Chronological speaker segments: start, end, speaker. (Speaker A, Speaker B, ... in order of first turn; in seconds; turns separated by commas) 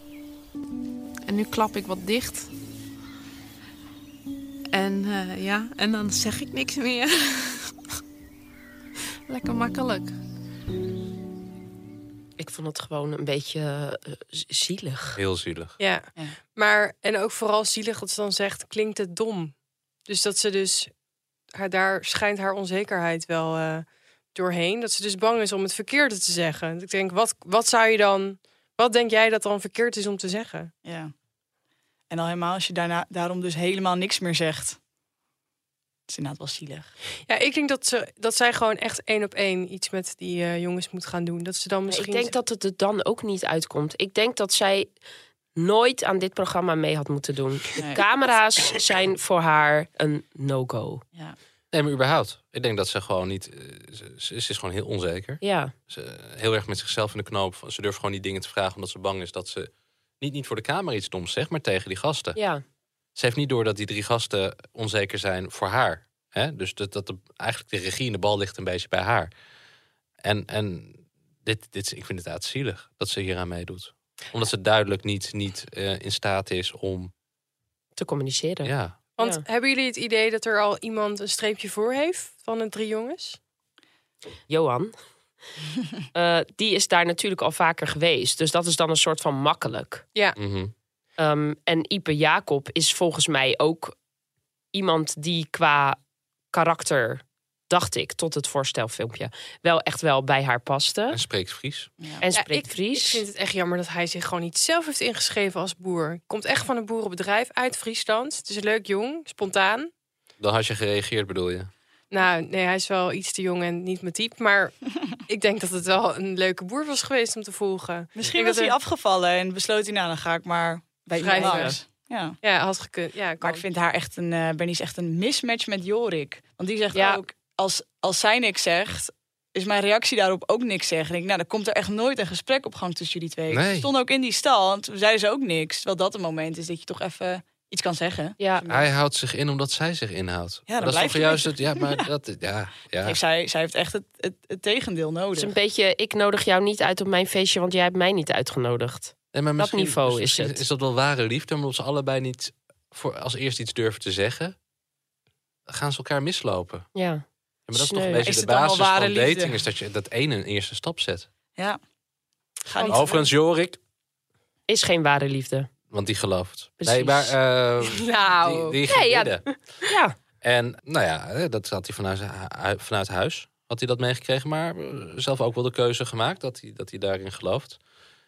Speaker A: 1.2-2.5, Speaker A: 4.7-7.8, Speaker A: 9.3-10.2, Speaker B: 12.4-15.2, Speaker C: 15.2-15.8, Speaker D: 15.8-19.6, Speaker D: 20.1-20.9, Speaker D: 21.5-30.7, Speaker E: 30.9-31.1, Speaker E: 32.1-34.8, Speaker E: 36.1-36.9, Speaker D: 37.3-42.3, Speaker B: 41.9-44.9, Speaker B: 45.6-51.0, Speaker E: 47.8-48.0, Speaker C: 51.7-62.4, Speaker B: 55.4-55.7, Speaker B: 62.4-62.6, Speaker C: 63.2-69.3, Speaker C: 70.2-77.1, Speaker B: 78.0-79.4, Speaker C: 78.6-79.0, Speaker D: 79.2-83.4, Speaker B: 84.5-84.9, Speaker B: 86.1-90.0, Speaker C: 90.4-90.7, Speaker B: 91.2-94.0, Speaker B: 94.7-96.0, Speaker B: 96.5-101.2, Speaker C: 101.1-101.9, Speaker B: 102.2-103.2, Speaker D: 102.3-109.9, Speaker C: 110.4-111.7, Speaker D: 112.1-118.8, Speaker E: 118.2-122.4, Speaker D: 121.2-121.8, Speaker B: 121.4-121.8, Speaker D: 122.4-123.6, Speaker E: 123.4-138.9, Speaker B: 126.9-127.2, Speaker C: 133.5-133.9, Speaker B: 138.4-138.6, Speaker C: 138.7-143.2, Speaker E: 140.7-142.0, Speaker E: 143.0-145.5, Speaker B: 145.4-150.6, Speaker C: 149.3-154.6, Speaker C: 155.7-156.9, Speaker B: 156.9-158.3, Speaker C: 157.7-161.3, Speaker E: 158.2-159.6, Speaker E: 162.7-163.2, Speaker D: 162.8-163.2, Speaker C: 162.9-163.8, Speaker B: 164.7-165.7, Speaker C: 165.9-169.5, Speaker B: 166.8-167.3, Speaker D: 167.8-168.8, Speaker B: 168.9-170.2, Speaker C: 170.4-177.8